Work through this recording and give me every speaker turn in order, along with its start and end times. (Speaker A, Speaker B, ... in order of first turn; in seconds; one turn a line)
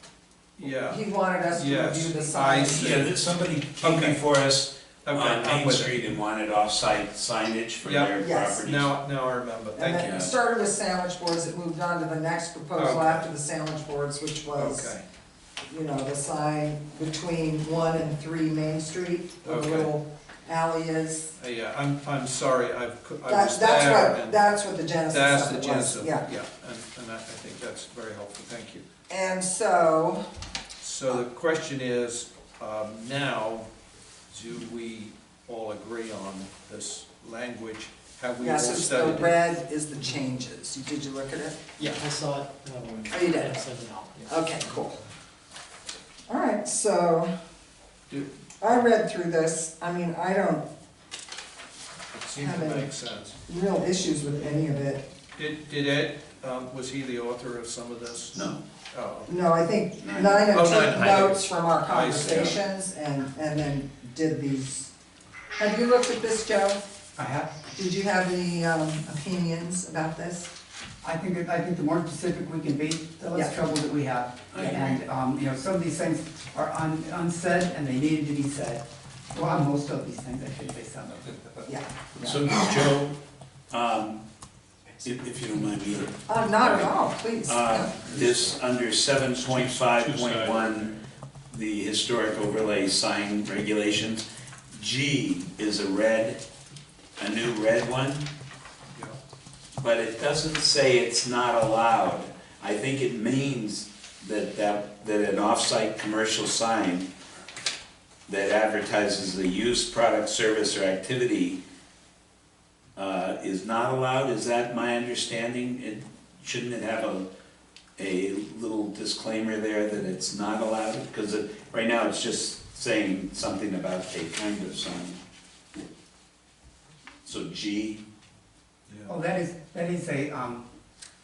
Speaker A: 0.6-3.1
Speaker B: 0.9-3.0
Speaker C: 2.7-8.9
Speaker A: 3.8-4.2
Speaker A: 5.0-6.0
Speaker A: 7.8-10.2
Speaker B: 8.2-8.6
Speaker B: 9.8-14.9
Speaker C: 10.0-10.3
Speaker A: 12.8-13.3
Speaker A: 14.5-15.0
Speaker B: 15.7-21.3
Speaker A: 19.4-19.9
Speaker A: 21.4-24.4
Speaker B: 23.3-26.2
Speaker A: 25.1-28.8
Speaker B: 29.1-30.2
Speaker A: 30.8-33.7
Speaker A: 34.3-39.4
Speaker B: 38.4-41.6
Speaker D: 42.0-44.3
Speaker B: 43.1-43.6
Speaker B: 44.2-45.0
Speaker B: 46.3-47.3
Speaker B: 48.6-50.6
Speaker A: 52.1-53.4
Speaker B: 52.4-52.9
Speaker B: 53.5-55.0
Speaker A: 55.4-59.3
Speaker C: 58.3-58.6
Speaker B: 59.3-64.9
Speaker C: 60.0-60.4
Speaker A: 60.5-62.5
Speaker C: 62.2-62.5
Speaker B: 65.6-66.8
Speaker E: 67.2-67.5
Speaker B: 67.7-70.5
Speaker E: 71.0-81.6
Speaker C: 74.5-75.0
Speaker B: 81.7-82.8
Speaker C: 82.2-83.2
Speaker C: 83.7-84.2
Speaker C: 85.0-86.9
Speaker B: 86.3-87.9
Speaker C: 87.5-90.9
Speaker A: 89.5-90.9
Speaker C: 91.5-96.4
Speaker C: 97.2-98.3
Speaker C: 99.8-107.1
Speaker C: 108.3-111.6
Speaker C: 113.0-117.3
Speaker C: 118.0-125.2
Speaker C: 127.2-128.0
Speaker A: 128.9-129.1
Speaker E: 129.1-130.6